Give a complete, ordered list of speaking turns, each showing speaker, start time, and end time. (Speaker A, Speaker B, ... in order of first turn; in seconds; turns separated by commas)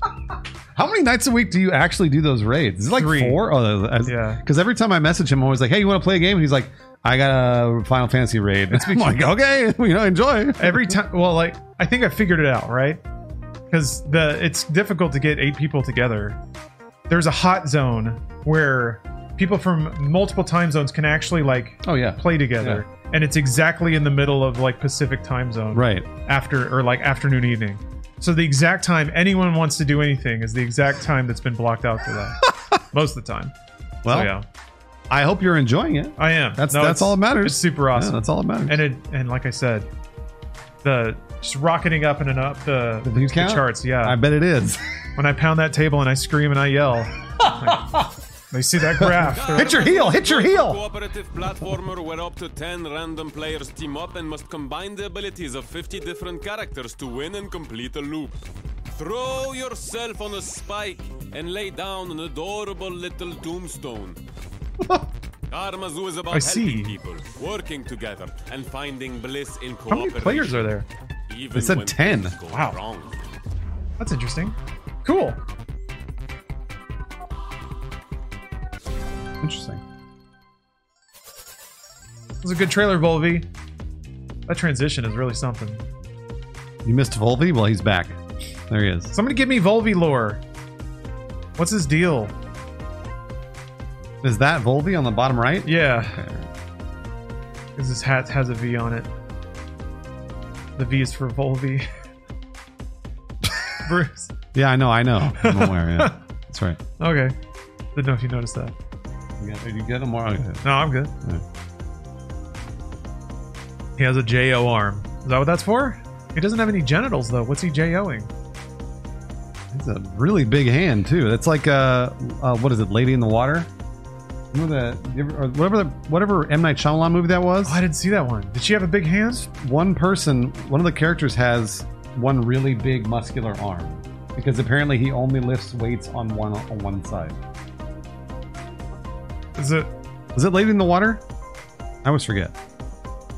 Speaker A: 0.8-11.0, Speaker B: 2.9-3.4, Speaker B: 4.1-4.4, Speaker B: 8.7-9.1, Speaker B: 10.6-13.0, Speaker B: 13.7-16.4, Speaker B: 17.1-32.4, Speaker A: 21.8-22.8, Speaker A: 25.7-26.1, Speaker B: 32.9-33.5, Speaker A: 34.0-34.3, Speaker B: 34.1-34.5, Speaker A: 35.1-38.8, Speaker B: 36.2-39.9, Speaker B: 40.8-44.2, Speaker A: 43.0-44.8, Speaker B: 45.2-47.9, Speaker A: 47.4-48.0, Speaker B: 48.5-49.9, Speaker A: 49.0-50.8, Speaker C: 49.3-58.4, Speaker C: 58.9-64.2, Speaker C: 65.5-70.8, Speaker B: 66.3-67.0, Speaker B: 69.9-70.9, Speaker C: 71.3-73.2, Speaker A: 71.5-72.4, Speaker B: 72.5-72.8, Speaker B: 74.0-75.4, Speaker A: 79.4-79.8, Speaker B: 82.4-83.5, Speaker B: 84.5-85.8, Speaker A: 86.8-89.1, Speaker B: 89.1-90.4, Speaker B: 91.6-92.3, Speaker A: 94.2-96.5, Speaker B: 95.7-96.2, Speaker B: 97.8-99.1, Speaker B: 100.8-101.9, Speaker B: 103.8-104.3, Speaker A: 104.5-106.8, Speaker B: 105.4-106.2, Speaker B: 107.0-107.3, Speaker B: 108.0-108.7, Speaker A: 109.4-110.6, Speaker B: 110.6-111.1, Speaker B: 114.0-118.3, Speaker A: 119.7-123.7, Speaker A: 124.5-127.8, Speaker B: 127.7-129.4, Speaker A: 129.4-137.4, Speaker B: 139.6-139.9, Speaker A: 140.3-141.2, Speaker A: 142.0-142.5